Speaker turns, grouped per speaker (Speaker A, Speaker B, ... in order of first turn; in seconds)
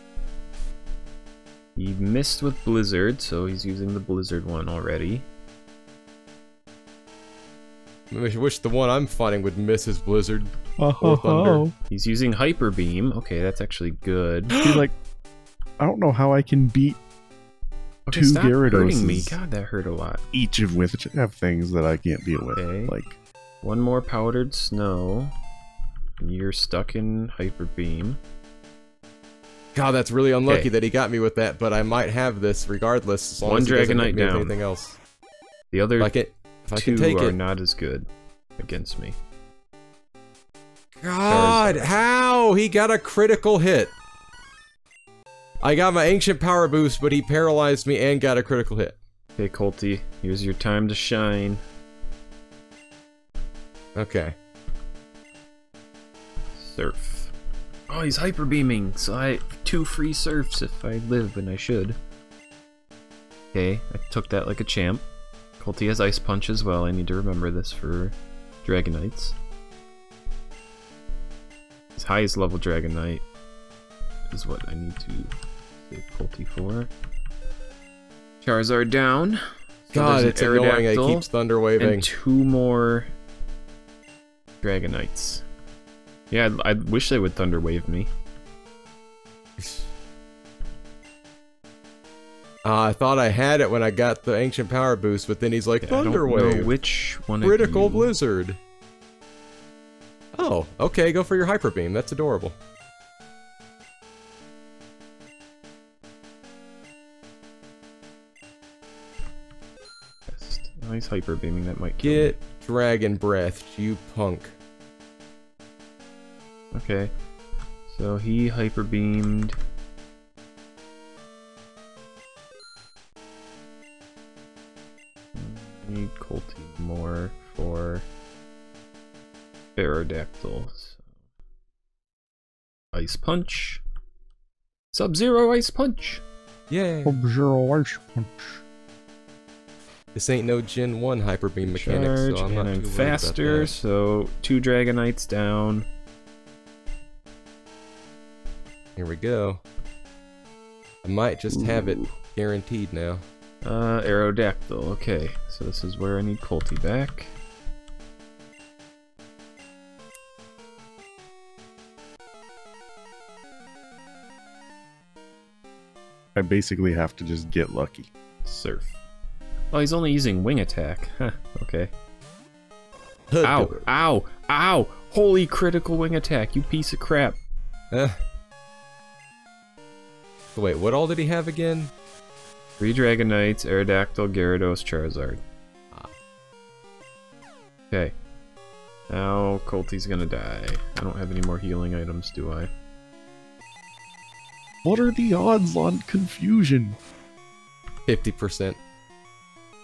Speaker A: 1.8-5.3, 11.9-14.6, 18.1-20.2, 22.5-22.9, 23.6-25.3, 26.2-28.2, 33.4-34.5, 35.7-36.1, 36.7-39.2, 41.3-42.0, 49.4-51.6, 56.6-57.3, 57.9-62.0, 63.5-65.0, 65.6-69.3, 72.0-73.2, 74.3-75.3, 75.9-76.9, 78.4-81.3, 81.8-83.1, 84.6-85.4, 86.3-88.1, 95.8-98.1, 110.3-112.3, 116.7-117.1, 117.9-119.6, 125.3-128.1, 129.8-131.0, 132.9-133.8, 134.9-136.2, 141.6-145.8, 151.5-152.1, 153.6-157.3, 168.4-169.0, 169.7-171.9, 173.4-177.4, 182.8-185.4, 189.1-192.7
Speaker B: 8.1-11.7, 14.5-14.9, 29.7-35.0, 36.0-37.4, 41.0-43.9, 45.6-49.0, 54.0-54.3, 79.9-82.1, 89.6-89.9, 92.6-96.7, 97.4-98.6, 100.3-102.6, 112.0-114.5, 136.7-137.2, 140.1-143.8, 148.9-149.6, 151.0-153.2, 173.3-173.9, 177.9-178.2, 180.5-181.9, 198.1-198.8
Speaker C: 10.8-11.7, 14.6-14.9, 15.8-17.0, 18.1-19.4, 20.3-23.2, 137.0-138.6, 166.3-168.1, 194.8-197.0